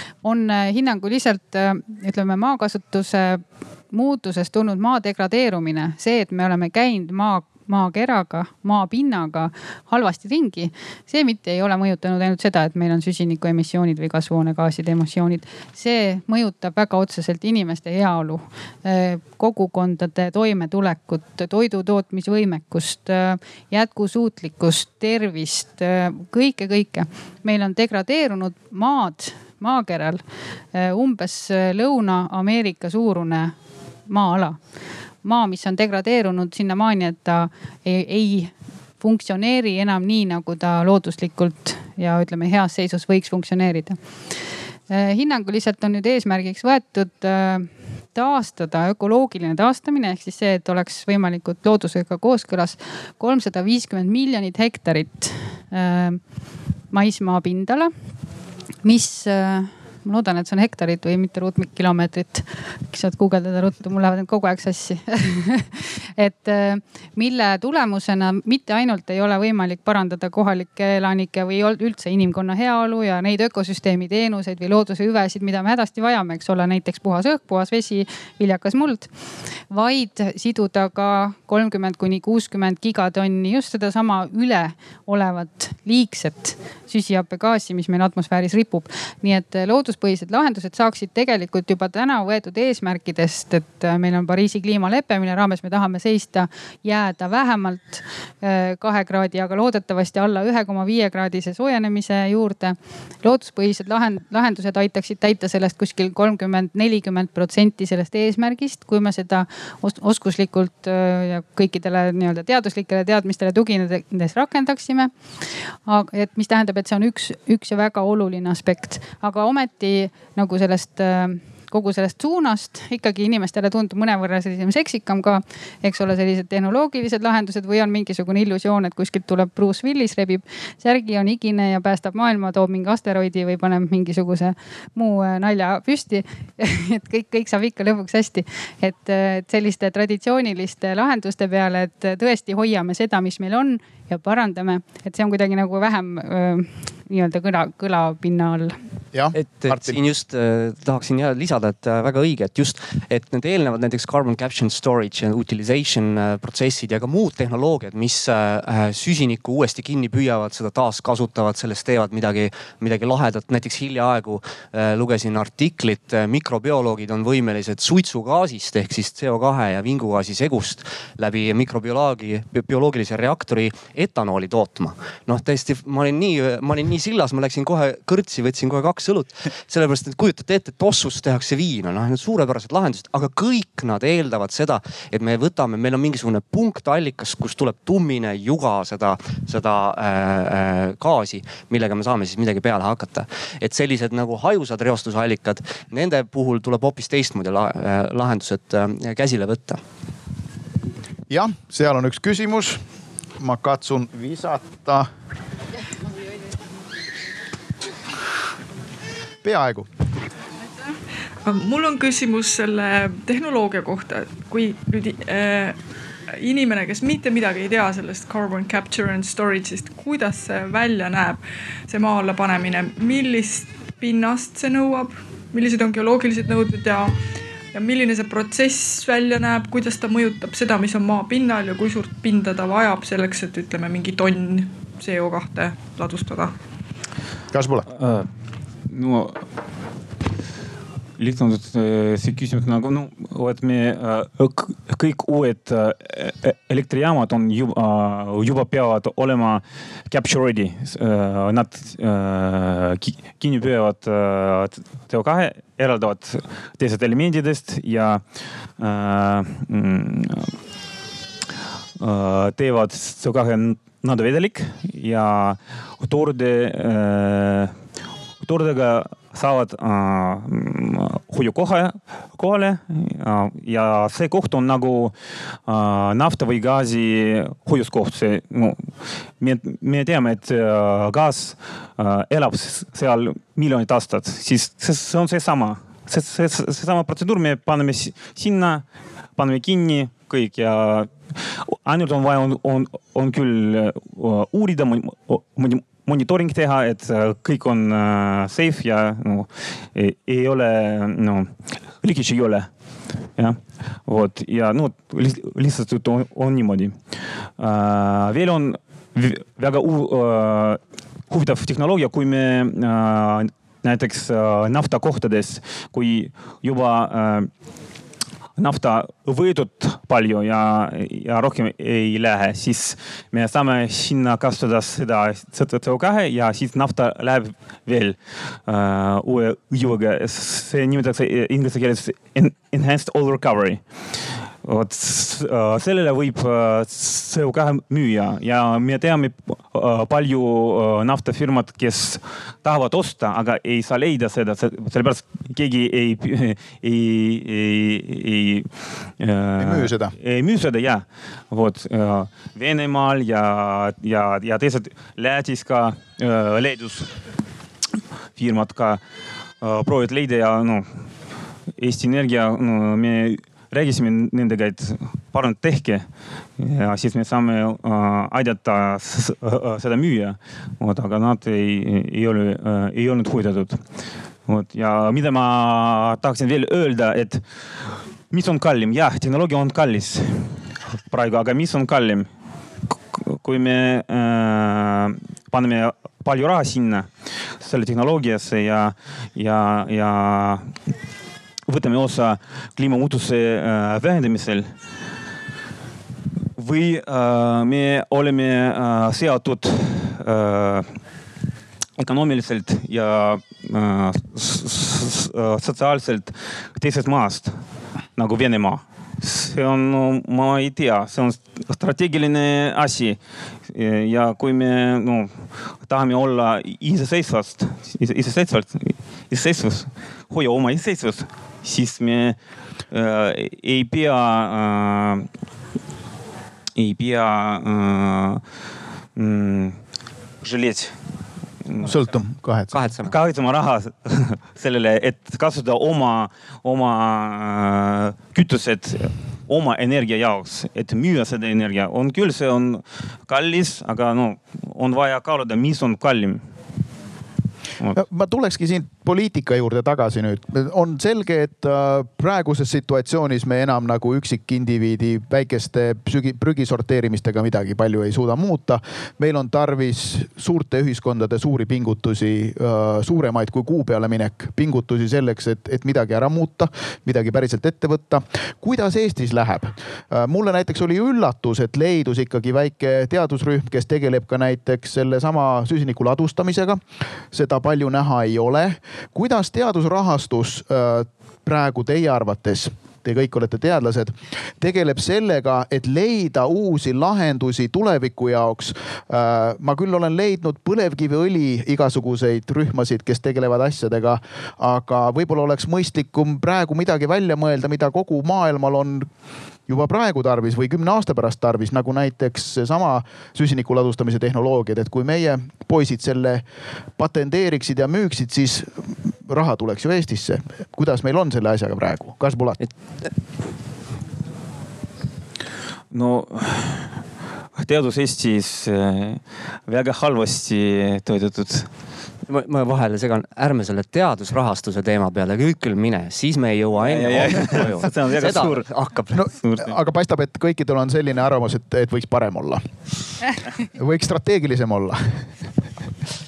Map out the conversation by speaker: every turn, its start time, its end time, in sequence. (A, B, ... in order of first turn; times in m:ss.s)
0:00.2-0:30.2 A
0:30.7-0:33.5 A
0:34.1-0:34.6 A
0:35.2-0:44.0 A
0:44.9-0:56.2 A
0:56.9-0:57.9 A
0:58.8-1:19.1 A
1:19.7-1:55.1 A
1:55.9-2:28.8 A
2:29.1-2:30.0 B
2:29.3-3:19.8 C
3:21.3-3:22.8 B
3:23.4-3:25.1 B
3:29.4-3:29.9 B
3:31.4-3:35.8 D
3:36.3-3:47.2 D
3:47.7-3:56.6 D
3:57.5-3:57.9 B
3:57.9-3:58.3 E
3:58.9-3:59.4 E
4:01.2-4:18.2 E
4:18.8-4:20.5 E
4:22.0-4:27.7 E
4:28.4-4:35.1 E
4:35.7-4:48.8 E
4:49.4-5:02.7 E
5:03.4-5:07.0 E
5:07.6-5:17.5 E
5:18.6-5:33.8 E
5:34.6-5:57.1 E
5:49.6-5:50.1 B
5:58.4-5:59.0 E
5:59.6-6:00.9 E
6:01.8-6:13.8 E
6:14.5-6:17.5 E
6:18.3-6:22.3 E
6:23.1-6:30.7 E
6:31.7-6:34.7 E
6:36.6-6:40.9 E
6:42.0-6:47.6 E
6:48.2-6:53.2 E
6:53.7-7:02.4 E
7:02.9-7:05.3 E
7:06.8-7:08.4 E
7:09.2-7:09.8 E
7:10.4-7:11.0 E
7:11.6-7:12.0 E
7:11.8-7:12.7 B
7:12.7-7:13.1 C
7:13.0-7:26.4 E
7:27.9-8:19.1 B
8:19.7-8:26.4 B
8:27.0-8:32.6 B
8:32.6-8:33.1 C
8:35.9-8:37.0 E
8:37.6-8:41.7 E
8:42.3-8:49.2 C
8:46.8-8:48.7 E
8:49.1-8:52.6 B
8:49.4-8:49.7 E
8:53.6-8:55.3 B